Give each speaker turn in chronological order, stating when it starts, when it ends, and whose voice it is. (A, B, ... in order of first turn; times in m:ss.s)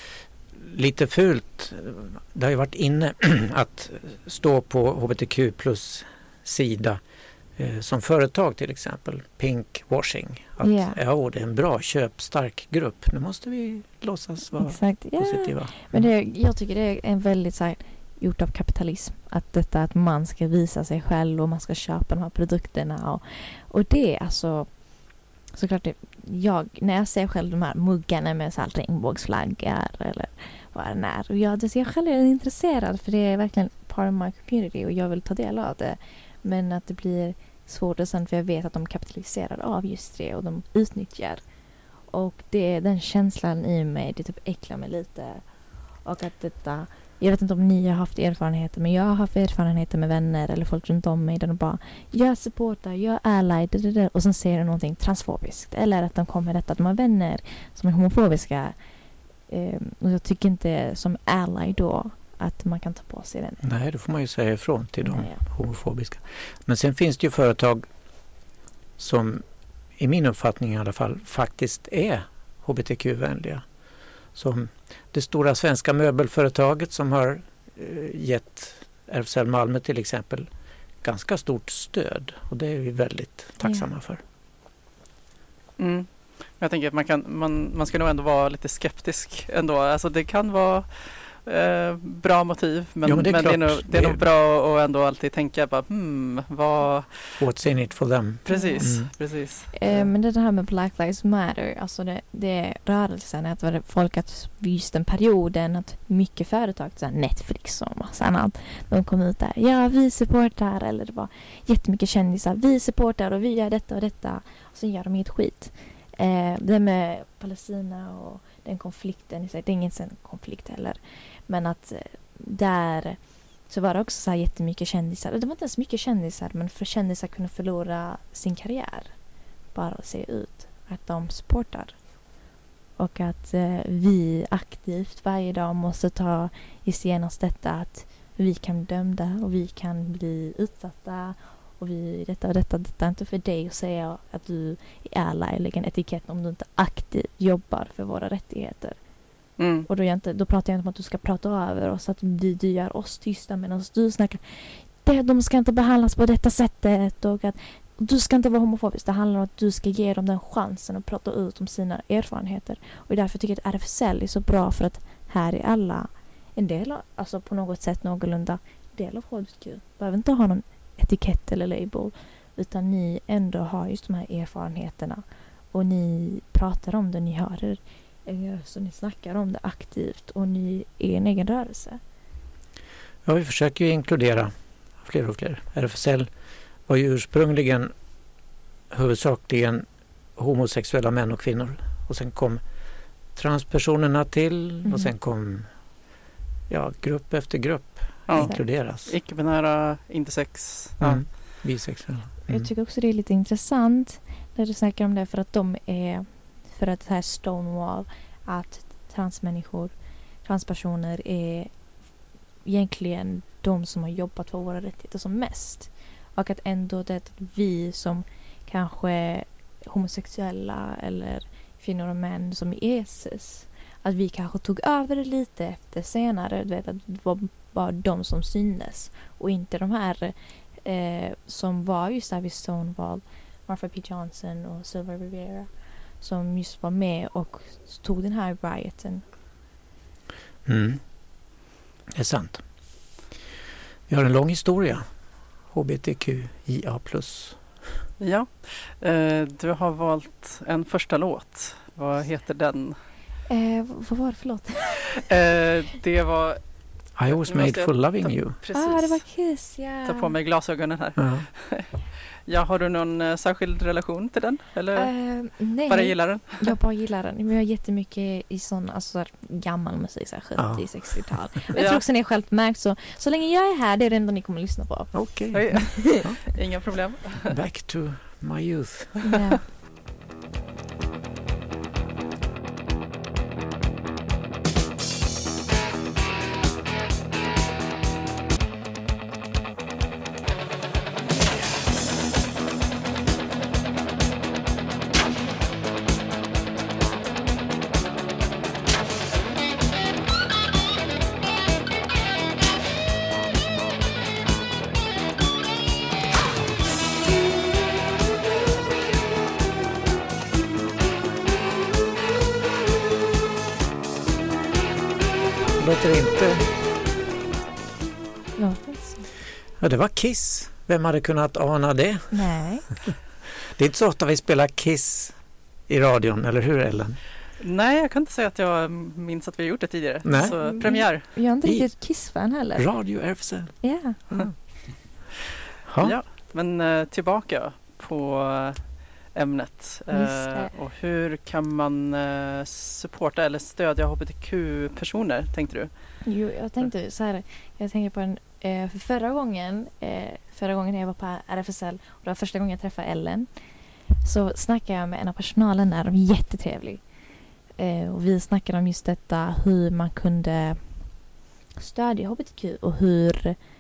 0:00.5-0:07.0 A
0:07.6-0:16.1 A
0:10.6-0:11.0 B
0:14.6-0:24.8 B
0:25.5-0:41.4 B
0:42.1-0:45.4 B
0:46.0-0:58.8 B
0:59.5-1:03.6 B
1:03.6-1:07.9 A
1:05.0-1:05.4 B
1:09.0-1:09.4 A
1:10.0-1:13.6 A
1:14.4-1:20.5 A
1:21.0-1:24.2 A
1:23.6-1:23.9 B
1:25.8-1:37.3 C
1:33.0-1:34.2 A
1:37.4-1:39.1 A
1:38.5-1:39.7 C
1:38.5-1:39.0 B
1:39.7-2:09.1 B
2:09.7-2:12.0 B
2:13.0-2:29.0 B
2:29.6-2:29.9 C
2:29.9-3:02.0 B
3:03.2-3:06.3 A
3:06.9-3:07.9 A
3:08.9-3:12.6 A
3:13.4-3:15.7 A
3:14.8-3:15.1 B
3:16.7-3:19.1 A
3:18.3-3:21.2 C
3:21.0-3:22.7 A
3:22.5-3:29.9 B
3:30.4-3:31.7 B
3:32.6-3:59.2 B
4:00.7-4:01.0 A
4:02.1-4:02.6 A
4:04.1-4:05.0 A
4:05.7-4:07.6 A
4:08.2-4:13.0 C
4:13.5-4:15.2 B
4:15.2-4:16.6 C
4:17.2-4:18.6 A
4:17.3-4:19.2 C
4:18.7-4:20.3 B
4:20.0-4:25.1 C
4:21.2-4:21.5 A
4:25.0-4:35.2 B
4:25.9-4:26.7 C
4:30.6-4:30.9 A
4:31.8-4:32.0 C
4:35.1-4:35.7 A
4:35.5-4:37.6 C
4:35.8-4:36.4 B
4:37.4-4:39.2 A
4:39.3-4:39.6 B
5:15.8-5:16.7 A
5:18.6-5:19.3 B
5:19.8-5:25.4 A
5:22.3-5:22.9 B
5:25.9-5:27.2 A
5:27.6-5:31.3 C
5:30.2-5:30.6 A
5:30.4-5:32.9 B
5:32.8-5:34.6 A
5:33.8-5:34.2 B
5:35.9-5:36.2 A
5:36.0-5:45.9 C
5:40.1-5:40.7 B
5:46.2-5:53.5 B
5:54.2-5:57.0 B
5:57.8-6:01.0 B
6:01.8-6:03.6 B